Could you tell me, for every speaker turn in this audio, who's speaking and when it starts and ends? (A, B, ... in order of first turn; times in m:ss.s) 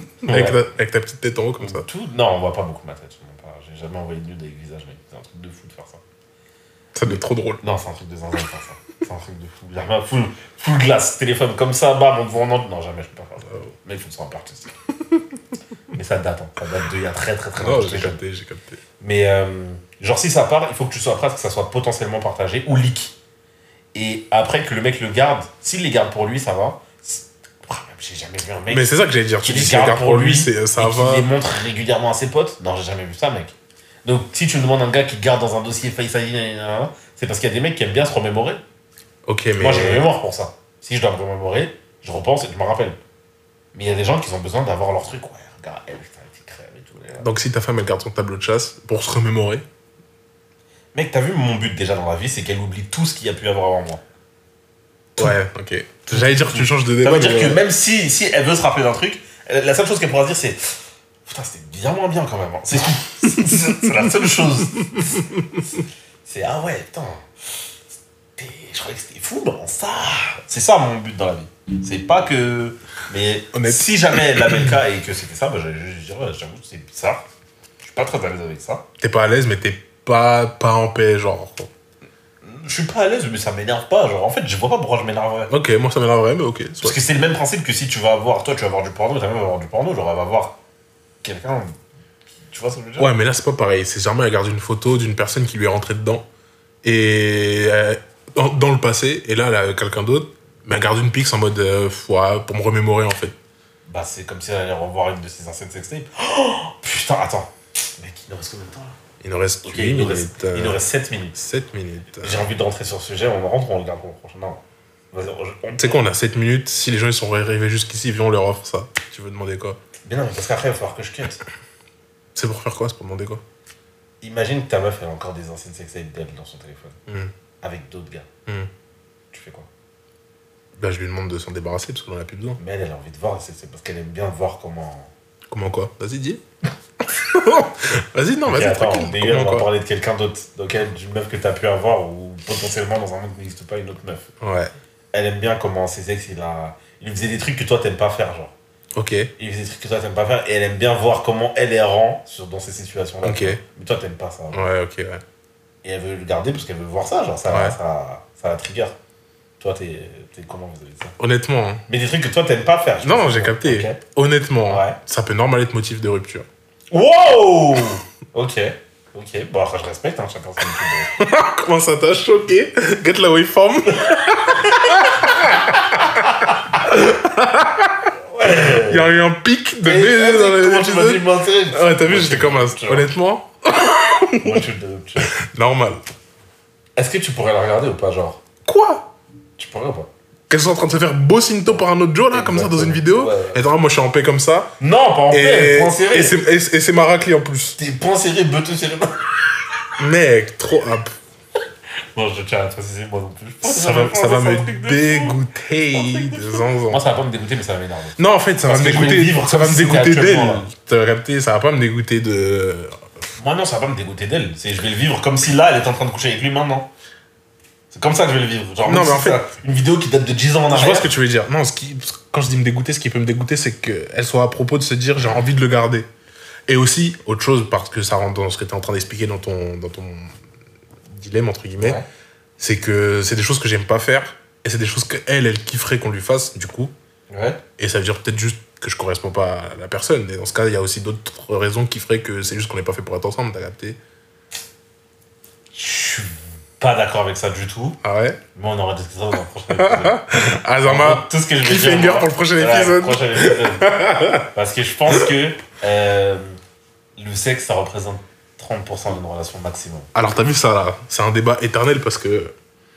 0:00.2-0:01.8 A
0:00.2-0:00.6 B
0:01.6-0:06.0 B
0:06.9-0:07.6 A
0:07.6-0:14.8 B
0:15.9-0:18.2 B
0:17.6-0:18.8 A
0:19.0-0:23.2 B
0:23.9-0:28.9 B
0:28.7-0:31.3 A
0:29.4-0:33.5 B
0:34.0-0:38.6 B
0:39.2-0:40.1 A
0:39.6-0:43.0 B
0:43.7-0:47.3 B
0:47.2-0:49.6 A
0:50.9-0:54.0 B
0:55.2-0:57.6 A
0:56.1-1:07.2 B
1:03.4-1:03.9 A
1:04.9-1:05.6 A
1:08.4-1:17.2 B
1:13.5-1:14.7 A
1:17.8-1:18.8 B
1:19.0-1:21.7 A
1:22.4-1:25.5 B
1:25.5-1:27.0 A
1:26.8-1:30.6 B
1:31.2-1:31.8 B
1:32.5-1:33.1 B
1:33.0-1:36.2 A
1:36.8-1:43.4 A
1:43.8-1:49.0 B
1:49.2-1:50.8 A
1:49.6-1:51.4 B
1:51.3-1:52.5 A
1:52.2-1:54.6 B
1:55.1-1:56.0 B
1:55.8-1:59.8 A
2:00.0-2:01.4 B
2:02.3-2:03.4 A
2:04.2-2:07.0 B
2:07.1-2:07.3 A
2:07.6-2:08.3 B
2:09.3-2:09.7 B
2:10.8-2:12.6 A
2:12.6-2:15.1 B
2:15.5-2:16.4 A
2:17.0-2:19.7 A
2:18.4-2:24.3 B
2:24.4-2:24.7 A
2:25.1-2:28.5 B
2:29.0-2:29.3 A
2:29.4-2:34.6 B
2:33.2-2:33.6 A
2:34.5-2:35.2 A
2:35.8-2:38.9 B
2:37.5-2:37.8 A
2:39.6-2:41.1 B
2:41.2-2:41.8 A
2:41.9-2:44.0 B
2:43.0-2:46.5 A
2:44.6-2:45.0 B
2:46.9-2:51.1 B
2:51.2-3:04.7 A
2:54.2-2:55.4 B
2:55.9-2:56.6 B
2:58.2-2:59.1 B
2:59.8-3:03.1 B
3:04.4-3:05.3 B
3:05.2-3:06.0 A
3:07.0-3:08.4 B
3:08.6-3:09.1 A
3:09.6-3:10.1 B
3:10.5-3:14.7 A
3:11.7-3:13.6 B
3:14.8-3:16.4 B
3:15.3-3:17.8 A
3:17.8-3:19.2 B
3:20.0-3:21.1 A
3:22.1-3:25.4 B
3:23.6-3:27.0 A
3:25.9-3:30.7 B
3:28.2-3:33.0 A
3:33.4-3:36.9 B
3:37.9-3:41.1 B
3:38.8-3:39.4 A
3:40.7-3:46.1 A
3:46.7-3:50.3 A
3:51.1-3:52.0 A
3:51.8-3:52.0 B
3:52.6-3:56.9 A
3:57.3-3:57.6 B
3:57.8-4:04.0 A
4:05.7-4:08.0 B
4:08.0-4:08.4 A
4:08.5-4:10.2 B
4:09.7-4:14.5 A
4:10.8-4:16.6 B
4:17.2-4:20.1 B
4:20.1-4:22.5 A